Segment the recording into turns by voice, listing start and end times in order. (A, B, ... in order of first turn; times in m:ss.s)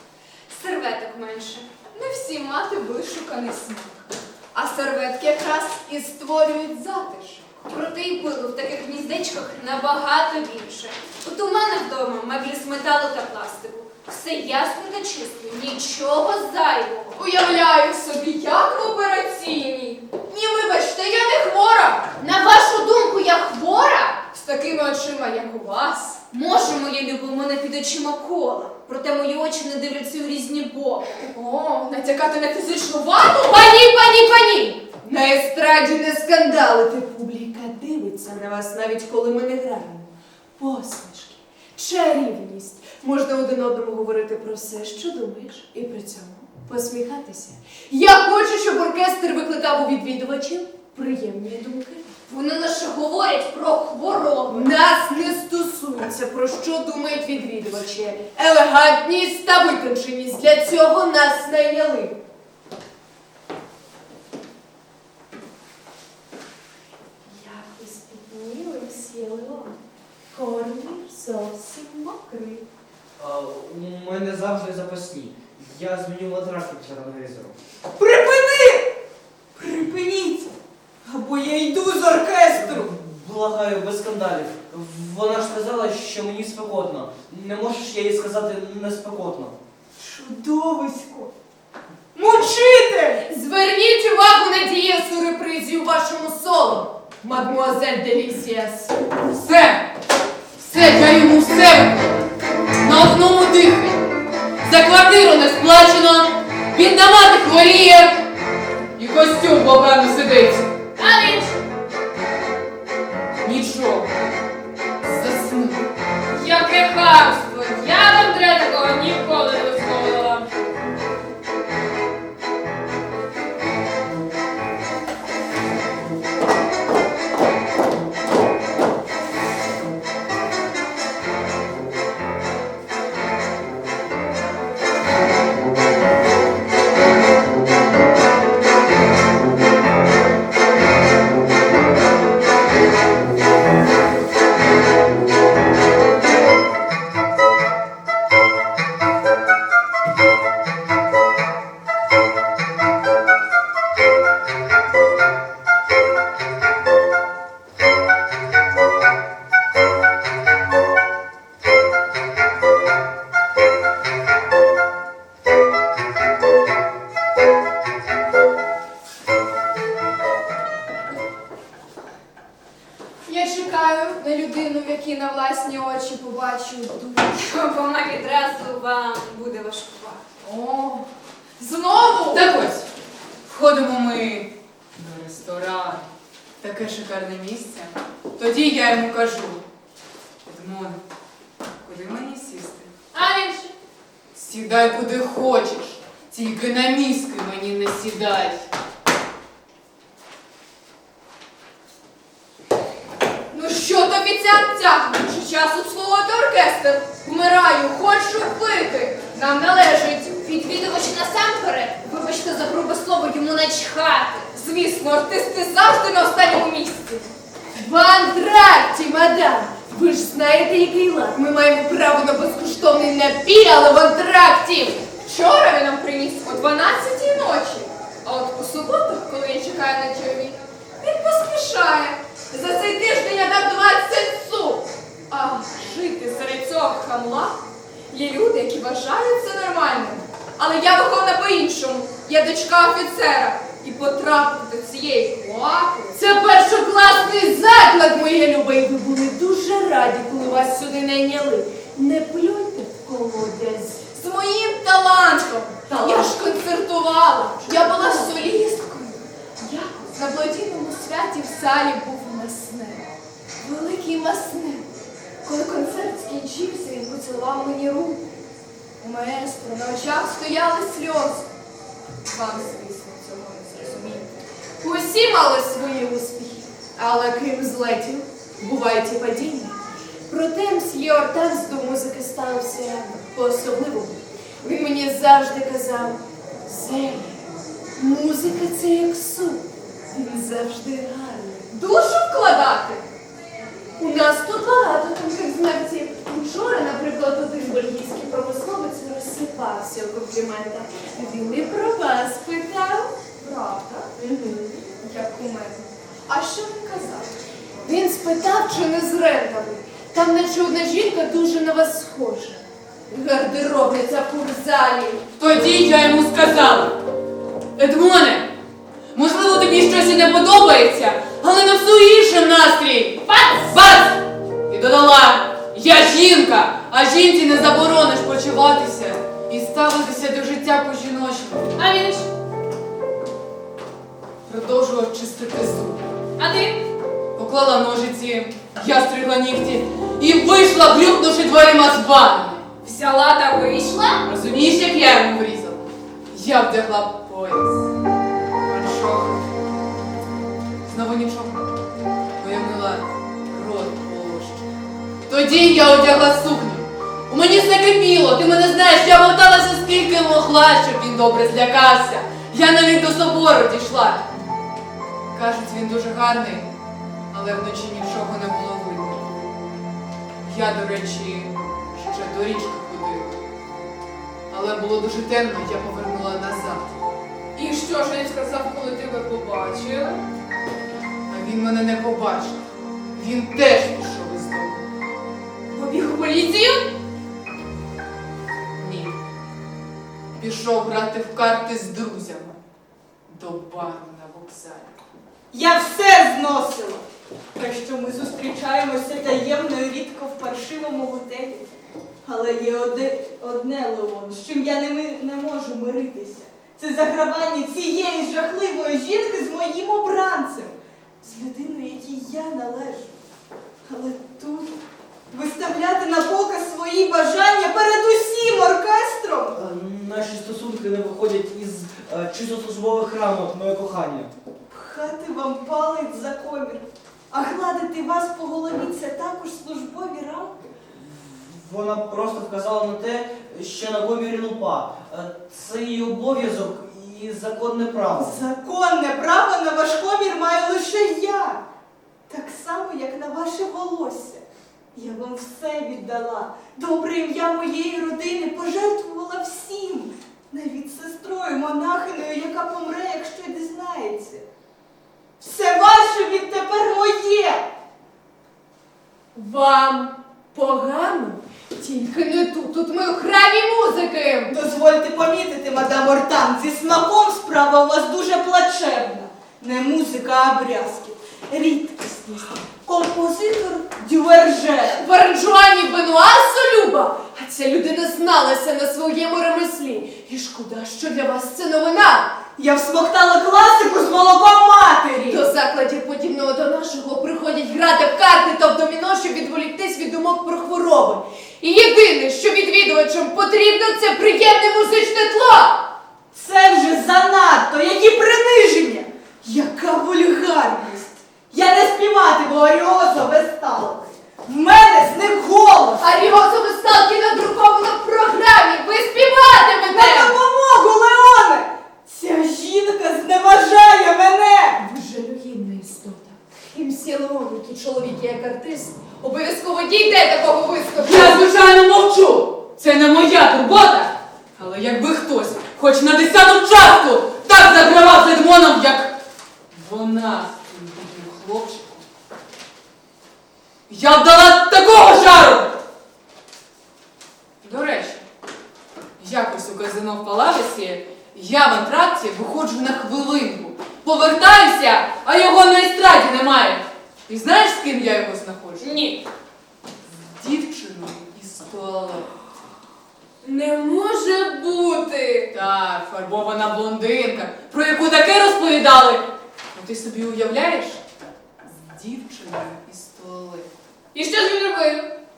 0:00.5-0:01.7 A
0:01.9-0:07.6 B
0:07.7-0:17.2 A
0:17.2-0:22.0 B
0:22.2-0:24.2 A
0:24.3-0:26.2 B
0:26.3-0:31.2 A
0:31.2-0:33.7 B
0:33.4-0:34.8 A
0:35.0-0:52.1 C
0:52.3-0:54.7 A
0:54.5-1:02.2 C
1:07.2-1:09.8 C
1:10.3-1:12.6 C
1:13.2-1:17.6 D
1:18.0-1:18.9 E
1:19.5-1:20.5 E
1:21.0-1:22.9 E
1:22.5-1:29.5 D
1:30.0-1:31.3 E
1:32.1-1:33.2 E
1:33.3-1:38.9 C
1:39.3-1:39.8 F
1:40.6-1:42.2 F
1:42.8-1:44.0 F
1:44.6-1:48.2 F
1:49.0-1:50.7 F
1:51.0-1:51.6 A
1:53.4-1:54.1 F
1:55.0-1:55.8 F
1:56.3-2:00.4 A
2:53.2-2:57.3 B
2:57.3-3:00.2 A
3:00.4-3:01.0 B
3:01.6-3:02.5 B
3:02.3-3:02.8 F
3:03.4-3:06.0 F
3:06.6-3:09.6 F
3:10.4-3:11.0 F
3:11.8-3:12.9 F
3:13.1-3:13.7 A
3:14.3-3:18.6 F
3:23.5-3:30.4 B
3:30.4-3:34.5 A
3:34.5-3:37.3 B
3:37.7-3:45.0 C
3:45.2-3:57.6 B
3:58.1-4:06.2 B
4:06.1-4:14.1 C
4:14.1-4:24.8 B
4:15.9-4:16.6 C
4:17.6-4:18.5 C
4:25.4-4:28.2 B
4:29.0-4:31.5 B
4:32.2-4:34.3 B
4:34.8-4:39.8 C
4:40.3-4:51.7 C
4:51.7-4:53.0 B
4:54.0-5:03.2 C
5:03.3-5:04.1 B
5:04.2-5:04.8 C
5:05.0-5:07.3 B
5:07.8-5:15.2 C
5:15.4-5:16.9 F
5:17.8-5:18.4 F
5:19.1-5:31.7 F
5:23.3-5:23.7 A
5:31.8-5:32.2 A
5:34.4-5:36.0 F
5:36.4-5:36.8 A
5:37.3-5:42.7 F
5:42.8-5:44.3 A
5:44.2-5:47.9 F
5:48.6-5:49.4 F
5:50.8-5:51.6 F
5:52.4-5:54.6 F
5:55.3-6:04.2 F
6:05.3-6:06.7 F
6:07.3-6:09.3 F
6:10.4-6:13.4 F
6:14.5-6:16.9 F
6:17.5-6:20.2 B
6:21.3-6:22.6 F
6:23.1-6:24.8 F
6:25.7-6:26.7 B
6:28.8-6:29.1 F
6:30.4-6:32.6 F
6:33.2-6:34.9 F
6:35.5-6:37.0 E
6:37.5-6:41.7 E
6:42.2-6:53.2 E
6:53.8-6:54.7 E
6:55.3-6:59.6 E
6:59.5-7:04.3 D
7:04.7-7:10.7 E
7:10.9-7:18.4 D
7:18.1-7:21.6 E
7:22.3-7:34.4 E
7:35.4-7:37.6 E
7:39.3-7:44.5 C
7:44.5-7:55.0 E
7:54.9-8:02.3 C
8:02.6-8:05.4 E
8:05.3-8:15.8 C
8:16.3-8:26.0 E
8:26.0-8:30.4 C
8:29.9-8:34.8 E
8:34.8-8:41.4 C
8:41.0-8:49.1 F
8:49.7-8:52.0 F
8:53.9-8:55.7 F
8:57.6-8:58.2 F
8:59.2-9:08.9 F
9:08.8-9:09.2 A
9:10.3-9:12.3 F
9:13.4-9:15.4 C
9:15.5-9:19.2 F
9:19.7-9:21.0 F
9:21.7-9:23.7 F
9:24.1-9:25.0 B